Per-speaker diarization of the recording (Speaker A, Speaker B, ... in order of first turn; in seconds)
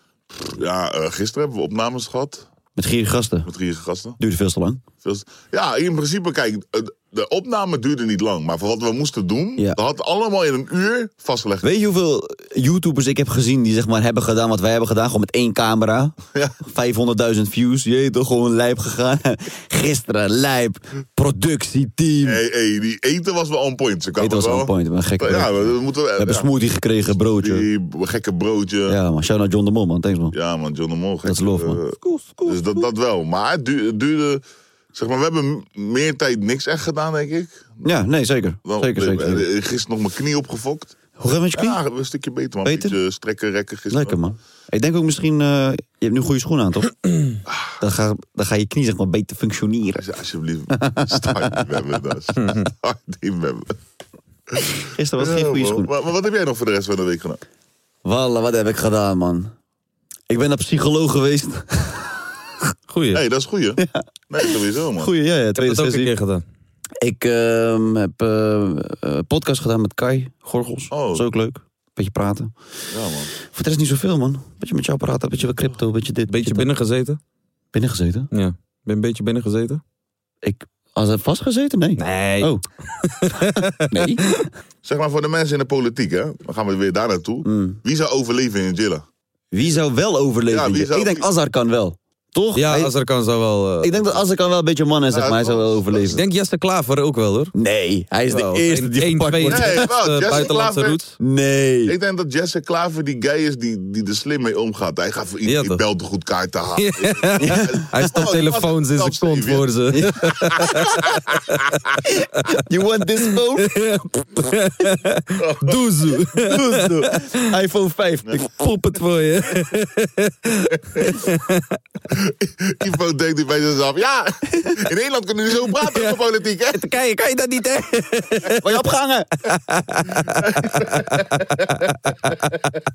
Speaker A: 0.4-2.5, 3.5-4.2, 5.0-11.7, 22.2-26.5, 27.3-29.0, 30.3-34.4, 34.9-37.8, 38.6-41.0, 41.5-44.2, 50.0-53.8, 55.2-57.4, 63.1-65.1, 70.9-71.3, 72.9-73.3, 84.8-89.0, 90.5-91.2, 95.1-96.2, 99.5-101.0, 101.9-109.7, 110.3-111.9, 115.4-115.8, 122.1-126.9, 130.4-131.5
Speaker B: 2.8-3.5, 4.2-4.8, 11.6-22.4, 24.2-27.7, 28.9-30.3, 31.2-31.8, 37.8-39.5, 41.2-41.8, 42.6-42.9, 43.9-46.9, 47.8-50.0, 50.8-51.4, 54.9-55.9, 58.0-59.5, 60.3-62.1, 63.8-66.1, 67.0-72.5, 73.5-76.7, 77.7-78.3, 80.4-82.6, 83.9-84.3, 87.4-87.8, 89.5-92.9, 93.8-96.2, 97.5-99.9, 101.2-101.9, 107.4-107.7, 109.9-110.9, 112.0-113.8, 116.4-118.5, 128.6-129.3
Speaker C: 32.0-32.3, 52.4-52.6, 62.9-63.2, 65.5-66.4, 76.3-77.2, 78.3-79.8, 82.0-84.4, 92.5-94.0, 96.1-97.5, 98.3-101.1, 105.5-105.8, 106.8-111.1, 113.6-117.3, 118.4-121.8, 125.8-126.2, 126.7-128.8, 129.4-131.9